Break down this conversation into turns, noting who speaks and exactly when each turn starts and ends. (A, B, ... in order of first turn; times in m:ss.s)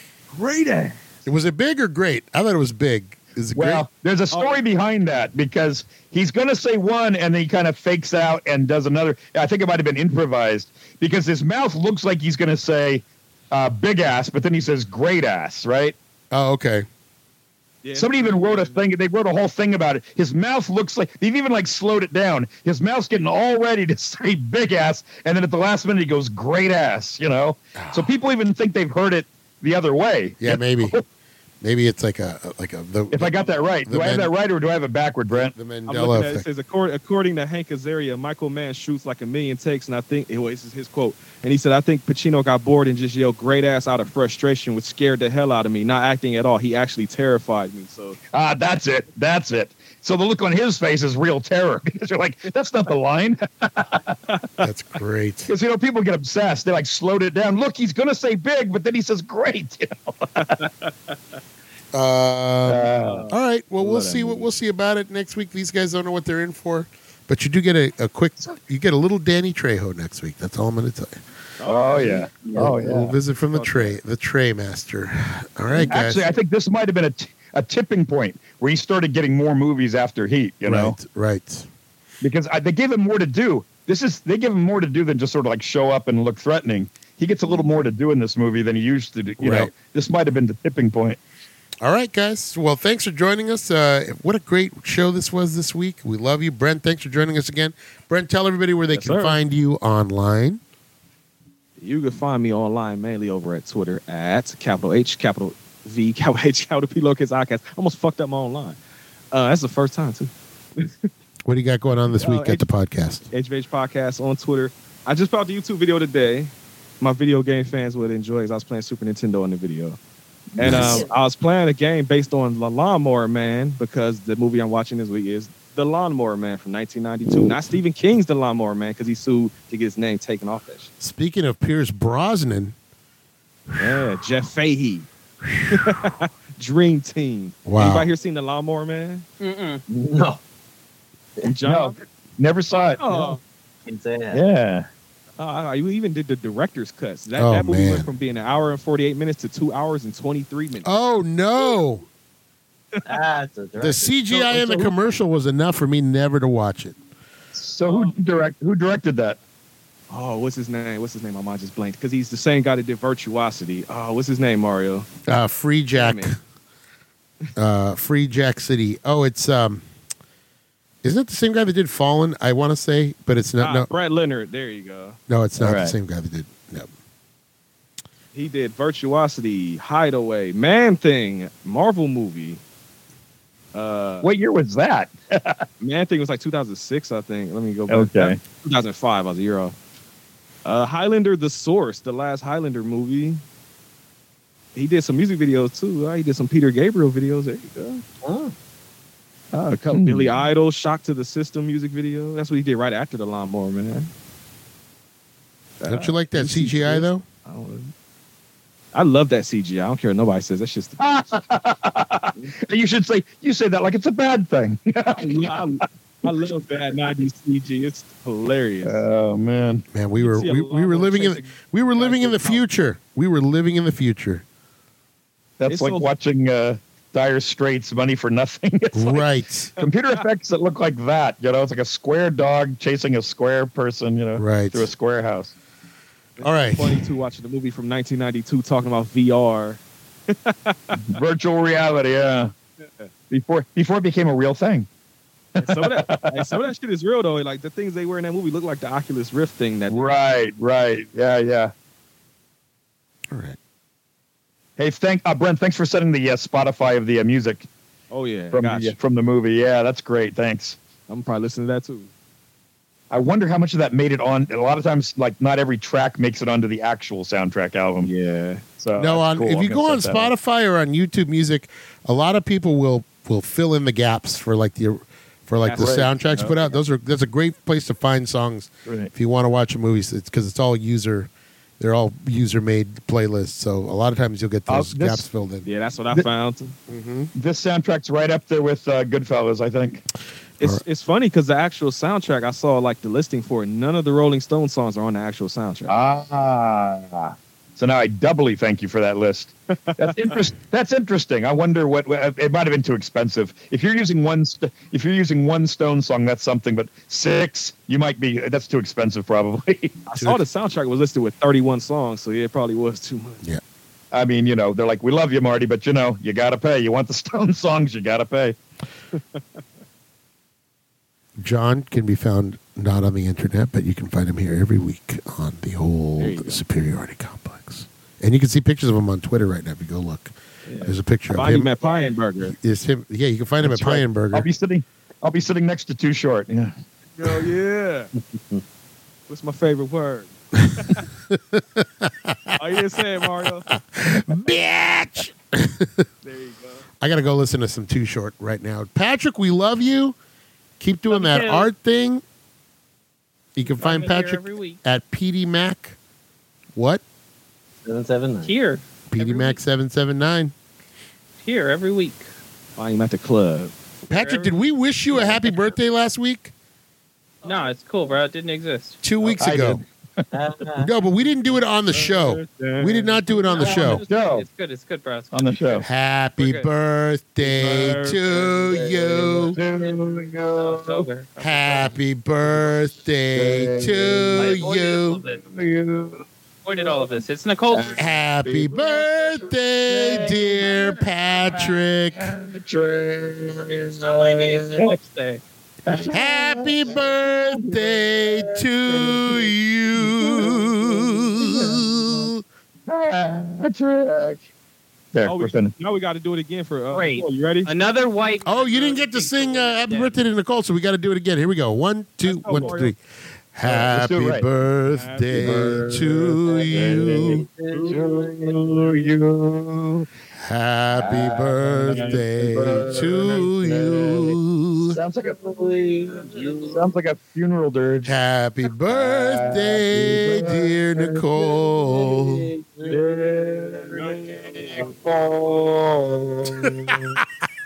0:00.3-0:01.0 A
0:01.2-0:03.8 B
0:03.5-0:16.0 C
0:04.3-0:04.6 A
0:16.3-0:16.8 B
0:17.8-0:18.8 A
0:17.9-0:31.0 C
0:27.8-0:28.1 B
0:30.4-0:31.0 B
0:31.6-0:33.3 B
0:33.1-0:35.5 C
0:33.8-0:34.3 B
0:35.3-0:36.4 B
0:35.9-0:48.2 A
0:48.3-0:54.2 C
0:54.3-0:54.6 A
0:54.6-0:55.5 B
0:55.5-1:00.5 C
1:00.4-1:01.1 A
1:01.9-1:11.2 B
1:02.6-1:03.3 C
1:03.0-1:04.5 A
1:11.6-1:12.3 A
1:11.6-1:13.2 C
1:12.0-1:12.8 D
1:12.6-1:16.2 B
1:13.5-1:14.0 A
1:15.8-1:21.0 C
1:20.6-1:21.7 B
1:22.2-1:31.2 C
1:29.4-1:29.7 B
1:31.8-1:40.6 B
1:38.9-1:39.4 A
1:41.8-1:48.8 A
1:49.3-1:51.1 A
1:51.4-1:53.3 B
1:52.2-1:52.6 A
1:53.3-2:00.0 A
2:00.6-2:01.0 C
2:00.6-2:10.9 A
2:00.6-2:01.0 B
2:00.8-2:01.1 D
2:11.0-2:12.7 B
2:13.7-2:14.0 B
2:13.8-2:15.1 A
2:15.4-2:15.9 B
2:15.7-2:19.2 A
2:17.6-2:18.1 B
2:19.4-2:19.8 E
2:19.9-2:20.4 D
2:21.4-2:21.9 A
2:21.6-2:23.0 C
2:23.0-2:23.4 A
2:23.8-2:24.4 D
2:24.3-2:24.9 C
2:25.4-2:30.9 A
2:27.4-2:28.1 B
2:30.8-2:32.0 B
2:33.0-2:34.9 D
2:33.8-2:37.0 B
2:37.5-2:39.4 C
2:37.8-2:38.2 A
2:40.1-2:45.1 A
2:45.3-2:46.4 B
2:45.9-2:46.3 A
2:47.6-2:49.8 B
2:51.0-2:53.9 B
2:53.6-2:55.2 A
2:55.3-2:56.9 B
2:55.6-2:56.0 C
2:58.3-3:02.6 A
3:03.7-3:04.3 A
3:04.2-3:05.6 C
3:05.8-3:09.7 A
3:07.9-3:08.4 C
3:10.6-3:13.4 A
3:14.7-3:18.0 A
3:18.2-3:18.5 D
3:19.5-3:20.3 C
3:19.7-3:24.1 A
3:25.8-3:27.9 A
3:25.9-3:27.2 B
3:28.9-3:31.0 A
3:31.0-3:35.9 C
3:35.2-3:39.0 A
3:38.8-3:39.8 C
3:39.9-3:44.4 B
3:40.2-3:42.6 A
3:45.6-3:49.2 C
3:45.7-3:46.1 A
3:48.9-3:49.7 B
3:49.8-3:55.5 C
3:54.4-3:54.9 B
3:56.4-4:01.2 A
3:56.4-3:57.0 B
4:00.9-4:02.5 C
4:02.8-4:03.1 A
4:03.3-4:04.9 C
4:05.5-4:06.5 C
4:05.6-4:10.0 A
4:09.9-4:11.7 C
4:13.3-4:13.6 B
4:14.8-4:17.7 C
4:18.1-4:19.0 A
4:18.5-4:20.8 C
4:21.1-4:22.1 A
4:23.1-4:28.1 C
4:28.0-4:28.6 A
4:28.8-4:30.3 C
4:28.9-4:45.6 B
4:35.6-4:36.6 A
4:35.8-4:36.7 C
4:38.8-4:39.1 C
4:44.7-4:45.2 C
4:45.6-4:46.7 A
4:46.9-4:47.3 B
4:47.3-4:50.0 C
4:50.6-4:55.9 A
4:55.9-5:09.9 C
4:59.9-5:00.4 A
5:10.1-5:13.4 A
5:10.2-5:10.4 B
5:14.1-5:18.6 C
5:19.1-5:19.6 A
5:21.4-5:31.7 B
5:26.2-5:26.6 A
5:30.6-5:32.5 A
5:32.6-5:34.4 B
5:33.6-5:37.4 C
5:37.2-5:38.1 A
5:38.3-5:38.6 D
5:39.3-5:41.1 A
5:40.6-5:42.6 B
5:42.6-5:43.7 A
5:43.7-5:46.0 B
5:46.2-5:46.8 A
5:47.0-5:50.2 B
5:50.8-5:52.2 B
5:51.1-5:51.7 E
5:53.6-5:56.0 B
5:53.6-5:54.8 E
5:56.7-5:57.0 B
5:57.8-5:58.5 D
5:58.4-5:59.6 E
5:59.1-6:00.5 B
6:01.4-6:02.3 E
6:02.8-6:03.7 A
6:04.1-6:06.5 B
6:04.1-6:04.6 E
6:07.4-6:09.0 E
6:09.0-6:09.8 B
6:09.4-6:10.3 C
6:10.3-6:10.9 D
6:10.8-6:14.0 B
6:11.9-6:13.7 A
6:13.4-6:16.7 E
6:13.9-6:14.4 C
6:15.3-6:15.8 C
6:15.8-6:19.6 B
6:17.4-6:18.8 A
6:19.2-6:21.1 C
6:20.6-6:22.0 E
6:21.4-6:25.2 B
6:23.3-6:24.6 C
6:24.3-6:25.4 E
6:25.4-6:35.0 C
6:26.6-6:28.1 E
6:28.0-6:32.2 B
6:34.2-6:35.4 E
6:35.9-6:42.3 C
6:36.1-6:42.4 B
6:42.9-6:44.4 C
6:45.1-6:45.7 C
6:45.2-6:47.7 A
6:46.9-6:50.2 E
6:48.4-6:53.0 B
6:52.2-6:52.9 A
6:53.5-6:57.4 B
6:53.6-6:54.4 C
6:54.8-6:56.1 A
6:55.3-7:00.1 C
6:56.4-6:59.1 D
7:00.3-7:05.0 B
7:01.0-7:08.1 C
7:05.6-7:06.9 D
7:08.0-7:12.5 B
7:08.9-7:11.8 C
7:11.9-7:13.3 D
7:12.8-7:17.2 C